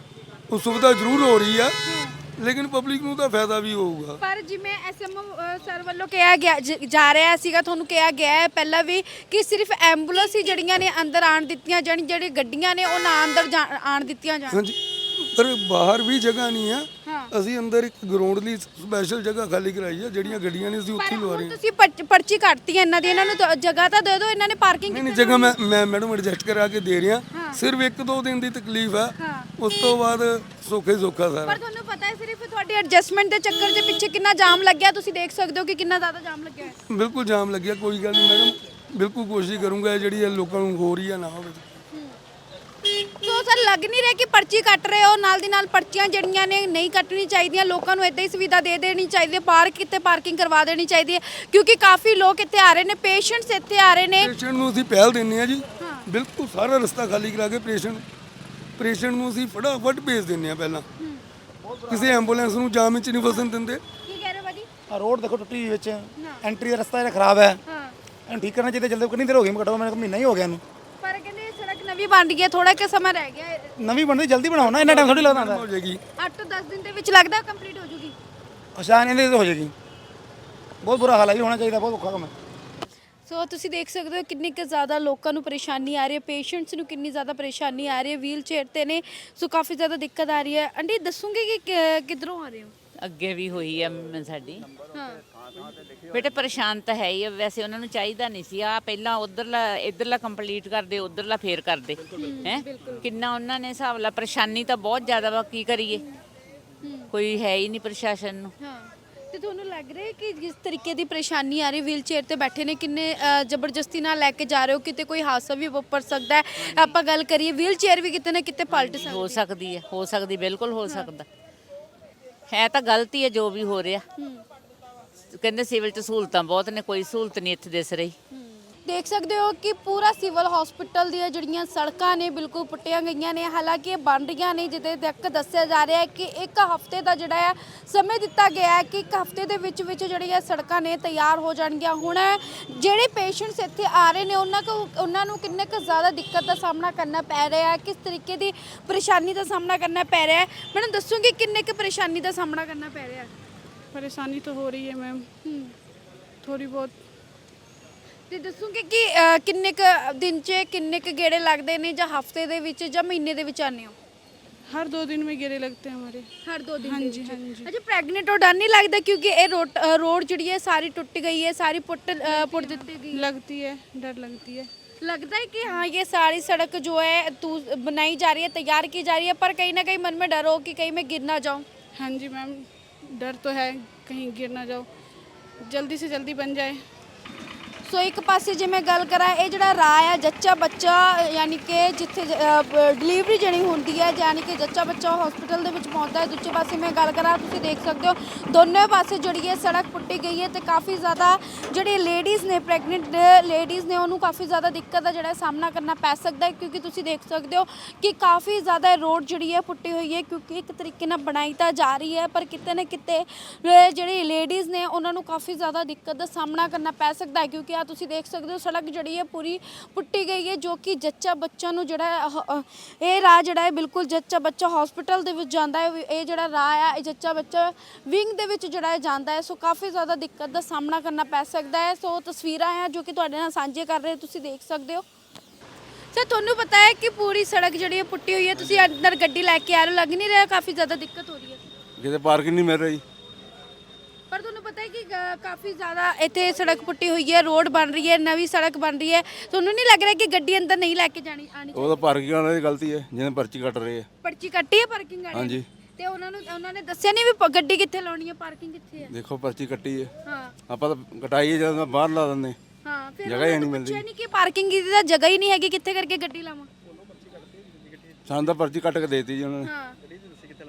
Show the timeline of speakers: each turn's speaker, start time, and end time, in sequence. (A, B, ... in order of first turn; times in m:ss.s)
0:00.5-0:01.7 A
0:01.8-0:02.2 B
0:02.4-0:04.2 A
0:04.2-0:14.6 B
0:14.5-0:21.6 A
0:17.0-0:17.3 B
0:21.0-0:25.6 B
0:24.9-0:31.6 A
0:27.3-0:27.6 B
0:29.2-0:29.5 B
0:31.4-0:36.8 B
0:36.9-0:41.6 A
0:43.2-0:54.3 B
0:54.2-0:58.0 A
0:55.8-0:56.1 B
0:58.8-1:00.8 A
1:01.0-1:01.2 B
1:01.6-1:02.5 C
1:01.9-1:03.8 A
1:04.0-1:04.7 B
1:04.9-1:07.6 C
1:06.2-1:06.4 B
1:07.6-1:08.0 B
1:08.3-1:10.6 C
1:11.0-1:13.8 B
1:13.8-1:16.0 C
1:14.6-1:16.0 A
1:16.2-1:18.1 B
1:18.7-1:19.7 C
1:20.8-1:22.3 C
1:23.3-1:32.7 B
1:33.0-1:34.6 D
1:34.9-1:35.2 B
1:36.1-1:46.0 D
1:42.1-1:43.0 B
1:46.8-1:47.1 B
1:47.1-1:48.5 D
1:48.6-1:59.4 B
1:58.7-2:01.2 D
2:00.8-2:01.1 B
2:02.5-2:04.0 D
2:04.2-2:04.4 B
2:05.3-2:08.1 D
2:08.3-2:33.3 B
2:33.9-2:35.3 E
2:35.4-2:35.7 B
2:36.4-2:36.9 E
2:38.3-2:44.0 B
2:44.7-2:46.3 E
2:46.4-2:53.2 B
2:46.8-2:47.7 E
2:52.2-2:54.7 E
2:55.0-3:01.6 B
3:02.0-3:04.9 E
3:05.6-3:06.8 E
3:07.8-3:55.0 B
3:56.1-4:01.6 B
3:58.6-3:58.9 F
4:02.0-4:03.0 F
4:04.3-4:12.0 B
4:11.7-4:14.1 F
4:14.2-4:19.1 B
4:15.3-4:15.6 F
4:19.1-4:20.1 F
4:20.2-4:20.5 B
4:20.7-4:22.6 F
4:22.8-4:26.7 B
4:23.2-4:24.0 F
4:28.2-4:29.7 F
4:29.6-4:30.0 B